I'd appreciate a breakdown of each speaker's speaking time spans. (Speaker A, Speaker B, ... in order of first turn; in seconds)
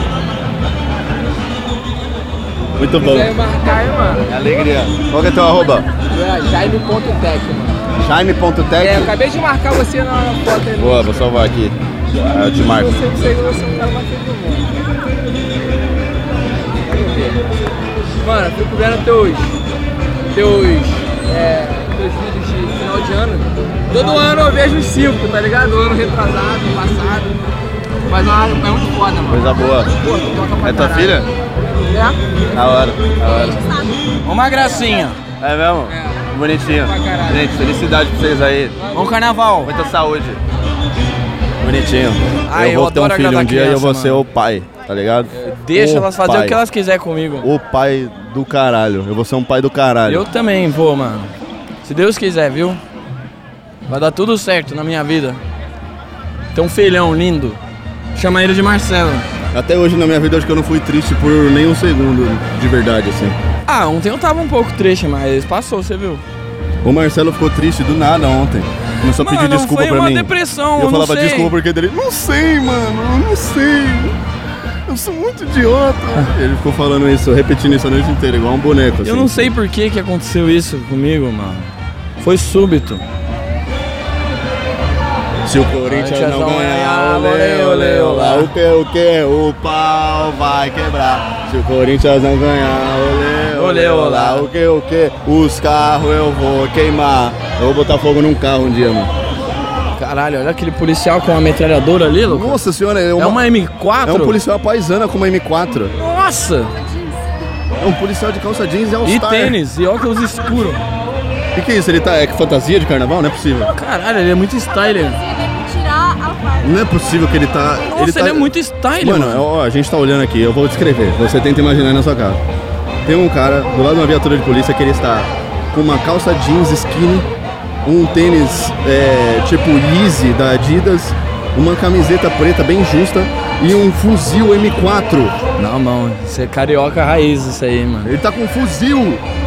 Speaker A: 2.8-3.4, 4.3-5.9, 8.0-9.2, 10.8-13.0, 29.3-29.9, 30.6-31.3, 32.5-33.6, 35.4-38.8, 39.6-40.4, 41.6-46.6, 47.4-50.3, 59.5-63.4, 66.8-74.2, 74.9-79.5, 85.5-99.1, 102.3-103.5, 104.0-105.9, 107.8-109.6, 111.5-113.7, 116.6-122.4, 123.0-127.3, 127.8-135.4, 138.0-139.2
Speaker B: 3.0-4.3, 6.1-7.8, 8.8-11.2, 12.7-14.7, 16.9-17.4, 18.2-19.6, 20.3-27.3, 28.1-31.2, 31.9-32.2, 34.2-35.2, 35.9-36.2, 36.9-37.4, 38.9-39.7, 42.5-44.3, 45.3-47.5, 50.1-52.8, 53.9-55.4, 56.5-57.6, 58.1-59.3, 63.7-66.2, 69.2-71.5, 79.0-83.0, 85.8-88.5, 93.5-94.5, 100.0-102.6, 103.2-104.4, 106.0-106.7, 109.0-110.8, 113.7-115.2, 117.9-119.5, 135.6-138.1
Speaker C: 33.6-33.9, 106.8-107.2, 115.0-116.8